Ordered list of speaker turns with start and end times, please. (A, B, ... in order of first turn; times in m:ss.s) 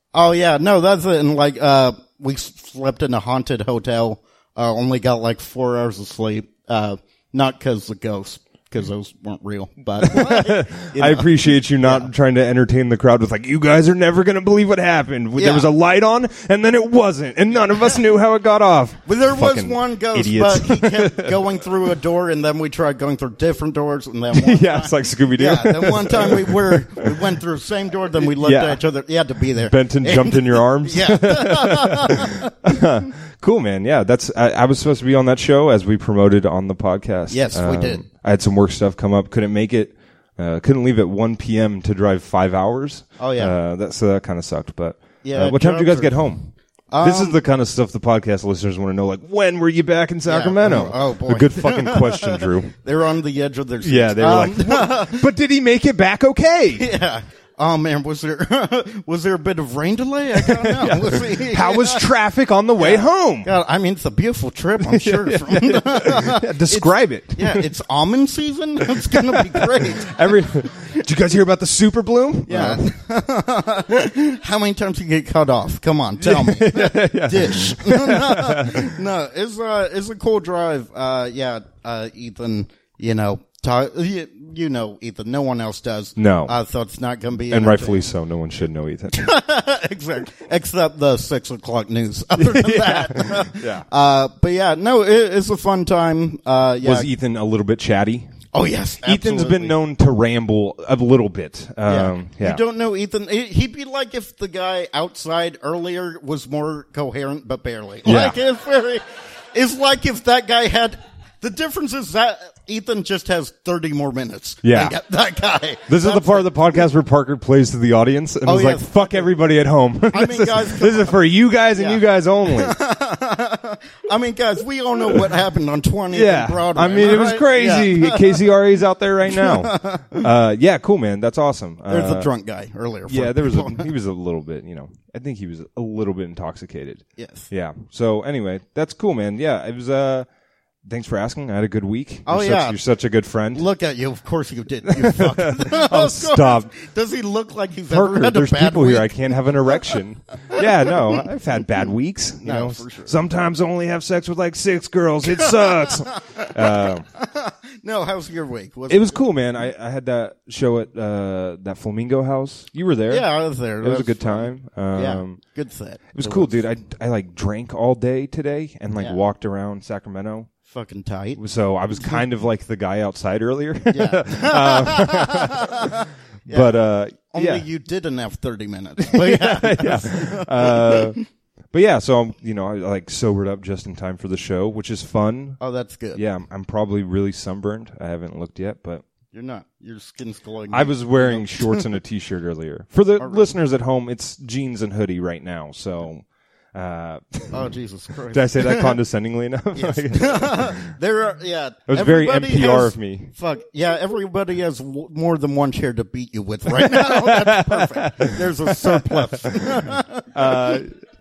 0:00.1-0:12.1 A
0:10.0-0:21.4 B
0:15.4-0:15.7 A
0:17.5-0:18.0 A
0:19.0-0:32.5 A
0:24.3-0:27.2 B
0:28.2-0:28.8 B
0:29.7-0:52.7 B
0:37.3-0:38.0 A
0:43.2-0:43.5 A
0:45.2-0:46.2 A
0:46.9-0:47.4 A
0:50.2-0:55.3 A
0:53.8-0:56.9 B
0:56.7-1:02.0 A
1:00.4-1:03.5 B
1:02.8-1:10.2 A
1:04.8-1:07.7 B
1:08.8-1:12.9 B
1:12.5-1:28.1 A
1:16.2-1:18.9 B
1:26.2-1:26.5 B
1:27.5-1:29.3 B
1:29.2-1:37.1 A
1:32.4-1:33.8 B
1:36.8-1:38.3 B
1:38.5-1:39.8 A
1:39.0-1:42.6 B
1:41.8-1:56.5 A
1:48.0-1:48.4 B
1:54.6-1:54.9 B
1:55.9-2:02.7 B
1:58.4-1:59.3 A
2:00.1-2:08.5 A
2:06.1-2:12.3 B
2:09.2-2:10.3 A
2:11.9-2:13.9 A
2:13.0-2:20.3 B
2:17.2-2:17.5 A
2:20.8-2:23.6 B
2:22.2-2:22.8 A
2:23.5-2:29.1 A
2:24.9-2:26.7 B
2:27.9-2:37.0 B
2:30.6-2:31.2 A
2:32.4-2:33.2 A
2:35.2-2:39.2 A
2:38.9-2:45.4 B
2:43.1-2:46.6 A
2:46.1-2:50.5 B
2:50.7-2:52.2 A
2:51.4-2:55.9 B
2:53.9-2:56.7 A
2:56.5-2:57.6 B
2:57.3-3:01.2 A
2:59.0-3:05.6 B
3:05.6-3:06.2 A
3:06.1-3:09.0 B
3:09.3-3:11.9 A
3:10.7-3:17.6 B
3:13.2-3:13.5 A
3:17.5-3:18.9 A
3:18.3-3:20.9 B
3:19.8-3:30.8 A
3:21.9-3:23.3 B
3:26.9-3:31.0 B